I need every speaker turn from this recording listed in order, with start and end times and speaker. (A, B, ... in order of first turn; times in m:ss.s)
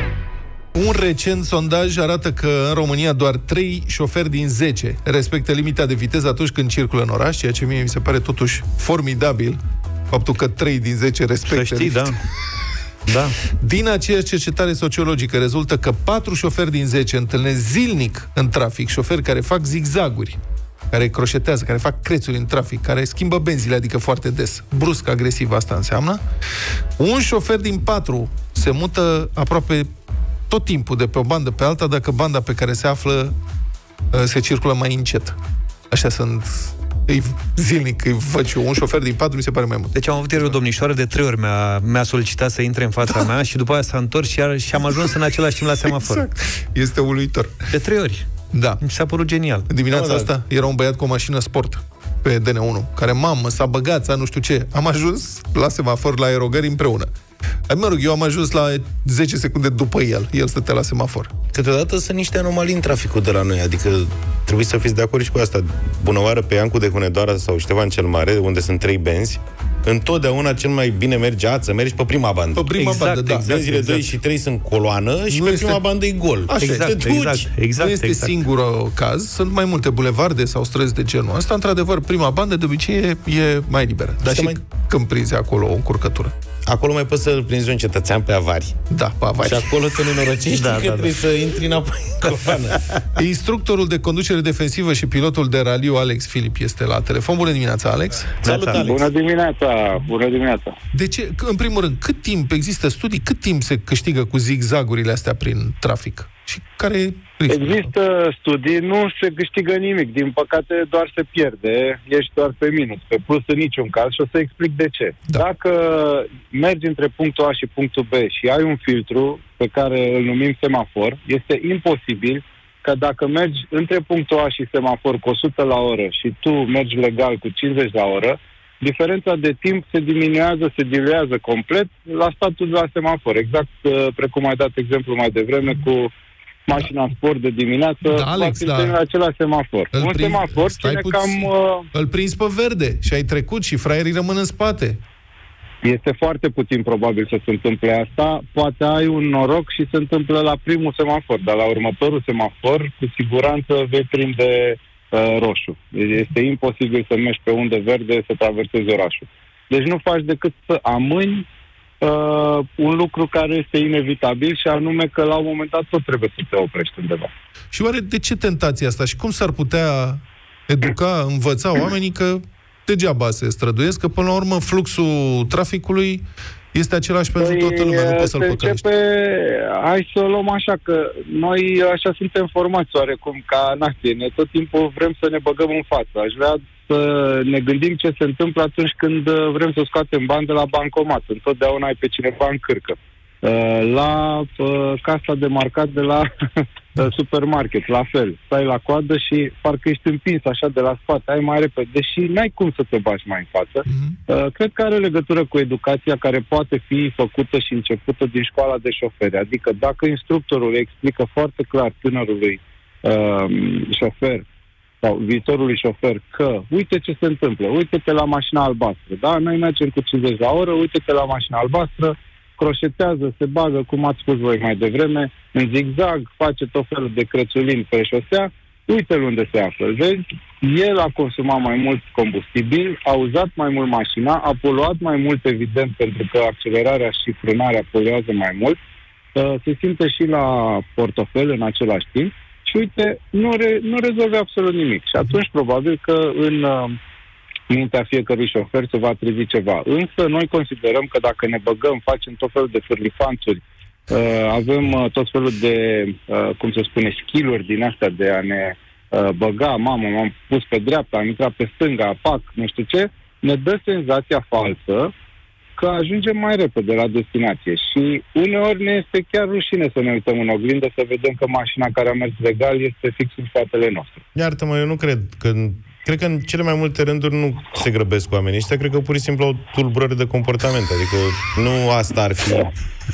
0:00.7-0:09.6 A
0:10.1-0:12.1 A
0:11.5-0:12.2 B
0:13.1-0:13.3 B
0:13.6-0:20.4 A
0:20.9-0:26.2 A
0:27.0-0:29.9 A
0:30.5-0:33.3 A
0:34.1-0:35.4 A
0:35.9-0:39.9 A
0:39.9-0:46.2 B
0:45.9-0:47.5 A
0:47.7-0:48.2 B
0:48.5-0:48.8 A
0:48.8-0:49.7 B
0:49.7-0:57.1 A
0:49.9-0:50.3 C
0:57.7-1:01.3 A
1:01.5-1:12.7 C
1:12.5-1:14.1 A
1:12.8-1:13.5 B
1:13.4-1:17.5 C
1:15.3-1:15.8 A
1:16.5-1:16.9 A
1:16.6-1:18.3 B
1:17.8-1:26.3 A
1:24.2-1:24.6 C
1:26.7-1:28.7 C
1:28.9-1:29.7 A
1:29.4-1:33.0 C
1:30.5-1:31.1 B
1:33.1-1:38.4 A
1:38.4-1:39.1 C
1:38.4-1:38.8 B
1:38.7-1:40.8 D
1:40.9-1:47.9 A
1:47.5-2:16.1 D
2:16.7-2:21.9 D
2:18.0-2:19.0 A
2:19.9-2:25.0 A
2:25.8-2:41.4 D
2:42.0-2:47.3 D
2:47.7-2:58.8 A
2:57.4-3:34.4 D
3:35.0-3:58.8 D
3:59.3-4:07.0 D
4:07.7-4:25.1 D
4:25.8-4:34.2 D
4:34.3-4:42.7 C